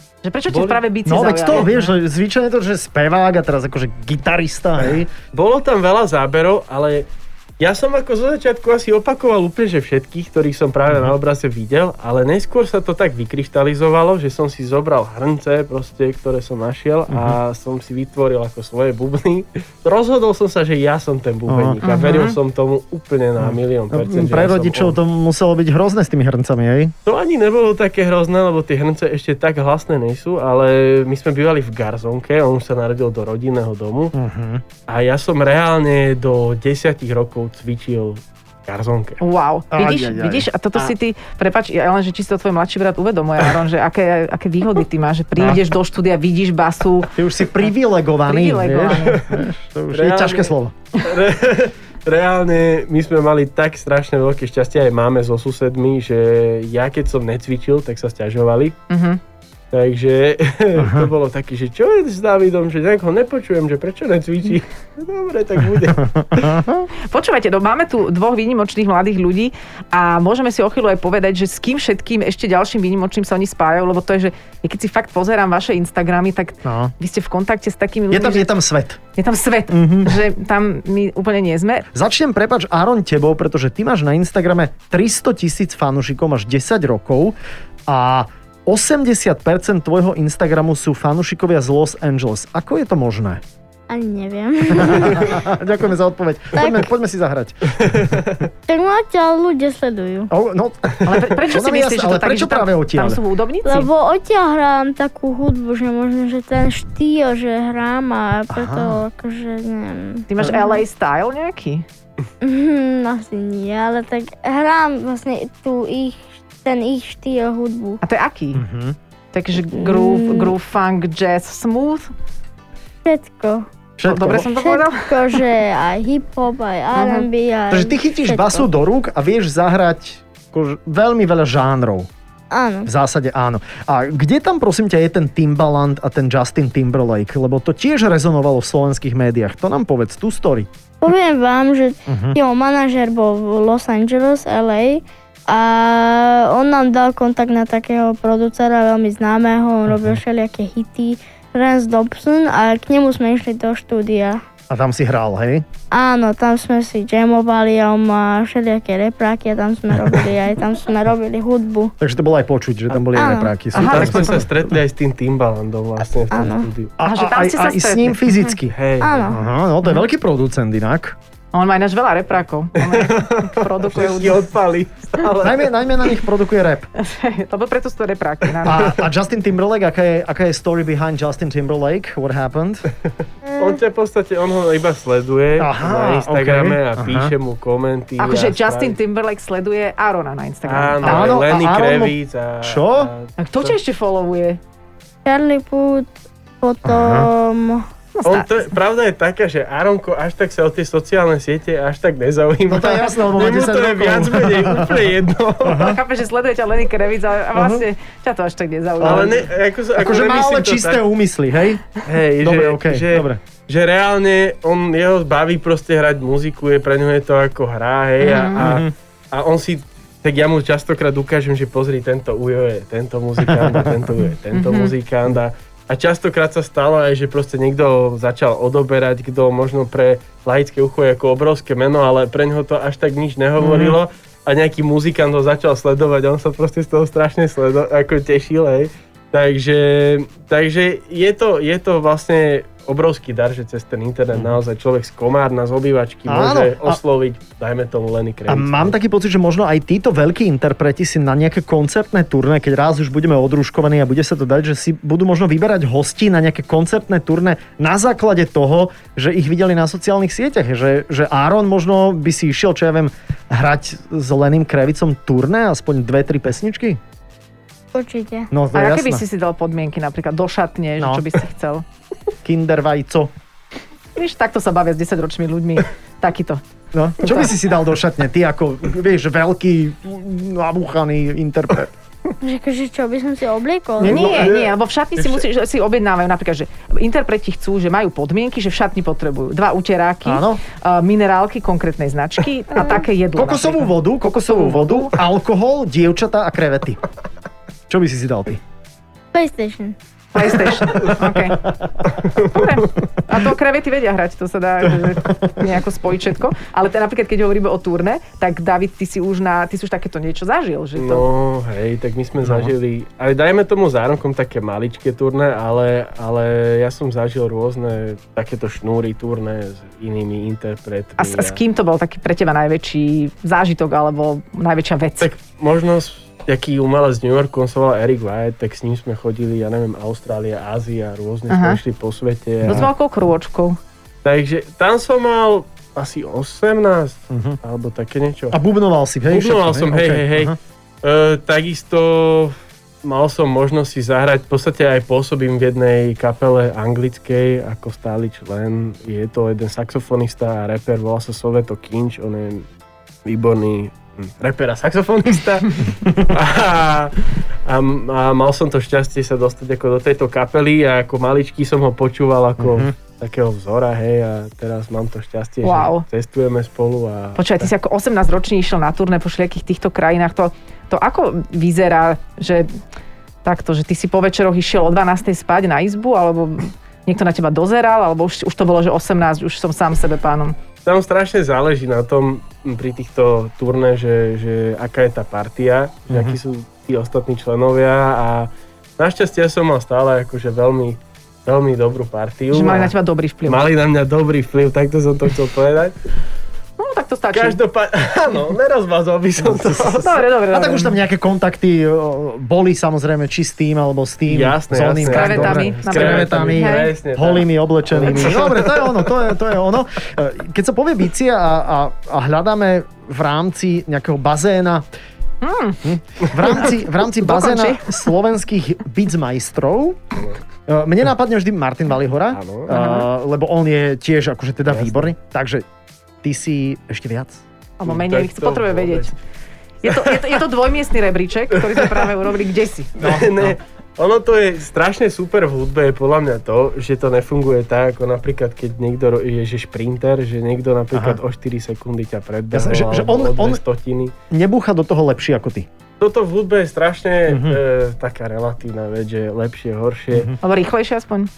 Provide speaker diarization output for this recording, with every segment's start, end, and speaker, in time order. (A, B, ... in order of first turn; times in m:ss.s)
0:00.2-0:01.9 A
0:00.5-0:00.8 B
0:01.0-0:05.1 C
0:05.3-0:07.1 B
0:07.6-0:25.0 B
0:17.1-0:17.4 C
0:21.5-0:21.8 C
0:21.8-0:22.4 A
0:23.4-0:26.9 C
0:27.0-0:34.1 B
0:34.1-0:34.6 C
0:34.9-0:39.2 B
0:39.2-0:47.1 A
0:39.7-0:40.5 C
0:45.4-0:45.6 C
0:47.1-0:50.7 C
0:48.2-0:49.2 A
0:48.8-0:58.8 B
0:58.9-0:59.2 A
0:59.7-1:06.6 B
1:00.8-1:01.1 C
1:06.0-1:06.8 C
1:07.0-1:18.5 A
1:16.6-1:16.9 C
1:18.1-1:19.0 C
1:19.2-1:21.9 A
1:19.7-1:20.2 C
1:21.9-1:27.3 C
1:27.9-1:33.4 C
1:33.9-1:35.4 D
1:34.8-1:38.1 C
1:36.6-1:36.9 D
1:37.8-1:38.4 B
1:38.7-1:40.3 D
1:40.3-1:43.2 C
1:41.0-1:43.9 A
1:43.6-1:50.8 D
1:48.5-1:49.0 C
1:50.3-1:51.8 A
1:52.4-1:58.0 D
1:58.0-1:58.6 A
1:58.5-1:59.0 C
1:59.3-2:02.1 A
1:59.8-2:00.5 D
2:03.0-2:03.7 D
2:04.0-2:04.5 C
2:04.0-2:05.4 A
2:04.4-2:08.6 D
2:06.9-2:07.3 A
2:07.7-2:12.1 C
2:12.5-2:12.9 D
2:12.8-2:20.7 C
2:21.0-2:34.4 D
2:22.1-2:22.4 C
2:29.9-2:30.2 C
2:34.7-2:35.6 C
2:35.9-2:41.9 D
2:42.0-2:44.6 C
2:43.1-2:43.5 D
2:43.7-2:44.4 A
2:43.7-2:46.9 B
2:46.3-2:46.7 D
2:47.0-2:48.8 C
2:47.0-2:48.5 A
2:48.7-2:49.4 B
2:49.0-2:49.4 D
2:49.3-2:51.2 C
2:51.5-2:54.5 A
2:52.8-2:55.7 B
2:55.4-2:56.9 C
2:57.0-2:58.8 A
2:58.6-3:02.8 C
3:03.6-3:09.0 B
3:05.6-3:07.3 C
3:08.2-3:11.3 A
3:10.6-3:13.8 B
3:11.0-3:13.1 C
3:13.4-3:14.6 A
3:15.2-3:17.8 D
3:16.8-3:17.3 C
3:18.1-3:18.5 A
3:18.2-3:26.0 B
3:22.7-3:25.0 C
3:25.6-3:26.0 C
3:25.7-3:29.4 A
3:27.5-3:27.8 C
3:29.0-3:29.4 C
3:29.0-3:31.0 B
3:30.0-3:31.9 C
3:32.0-4:08.9 B
3:32.4-3:33.4 C
3:38.2-3:38.6 A
3:38.6-3:38.9 C
3:43.5-3:44.0 C
3:44.5-3:44.9 A
3:53.6-3:54.0 C
4:06.3-4:07.0 C
4:08.5-4:27.0 C
4:27.9-4:28.5 D
4:28.5-4:29.2 C
4:28.7-4:31.8 A
4:31.0-4:31.2 C
4:32.4-4:33.3 C
4:34.2-4:36.6 A
4:36.9-4:41.9 C
4:37.2-4:37.5 A
4:42.4-4:44.4 D
4:44.0-4:44.6 C
4:44.0-4:55.2 A
4:50.2-4:50.6 C
4:52.8-4:53.0 D
4:53.3-4:57.0 C
4:57.9-4:58.6 C
4:59.3-5:00.0 D
5:00.3-5:01.6 A
5:01.6-5:02.0 C
5:02.2-5:02.7 B
5:02.4-5:11.3 A
5:04.8-5:05.5 C
5:11.0-5:21.6 B
5:12.4-5:12.7 C
5:21.2-5:25.3 A
5:25.2-5:32.9 B
5:31.5-5:31.8 A
5:32.6-5:32.9 C
5:32.6-5:33.8 A
5:34.2-5:38.6 B
5:37.3-5:37.6 C
5:38.5-5:40.6 C
5:39.3-5:52.7 B
5:53.2-6:07.7 B
6:02.6-6:02.9 C
6:05.6-6:06.0 A
6:07.4-6:12.7 A
6:13.4-6:20.6 A
6:20.8-6:32.9 B
6:26.1-6:26.4 C
6:32.5-6:33.6 A
6:33.4-6:36.0 B
6:36.8-6:37.6 A
6:37.3-6:40.2 B
6:39.5-6:39.8 C
6:39.9-6:40.9 A
6:40.5-6:54.9 C
6:44.3-6:49.1 B
6:45.1-6:46.9 A
6:55.4-6:58.0 A
6:55.8-7:00.1 C
7:00.7-7:05.6 C
7:02.3-7:02.8 B
7:02.7-7:03.1 A
7:04.7-7:05.1 B
7:06.2-7:07.4 C
7:07.8-7:09.1 A
7:07.8-7:09.1 B
7:09.8-7:12.9 A
7:09.9-7:10.3 B
7:13.0-7:13.6 C
7:13.0-7:24.1 B
7:20.9-7:21.2 C
7:22.5-7:23.6 C
7:24.3-7:25.7 C
7:26.0-7:30.3 B
7:27.3-7:27.6 C
7:30.4-7:31.3 A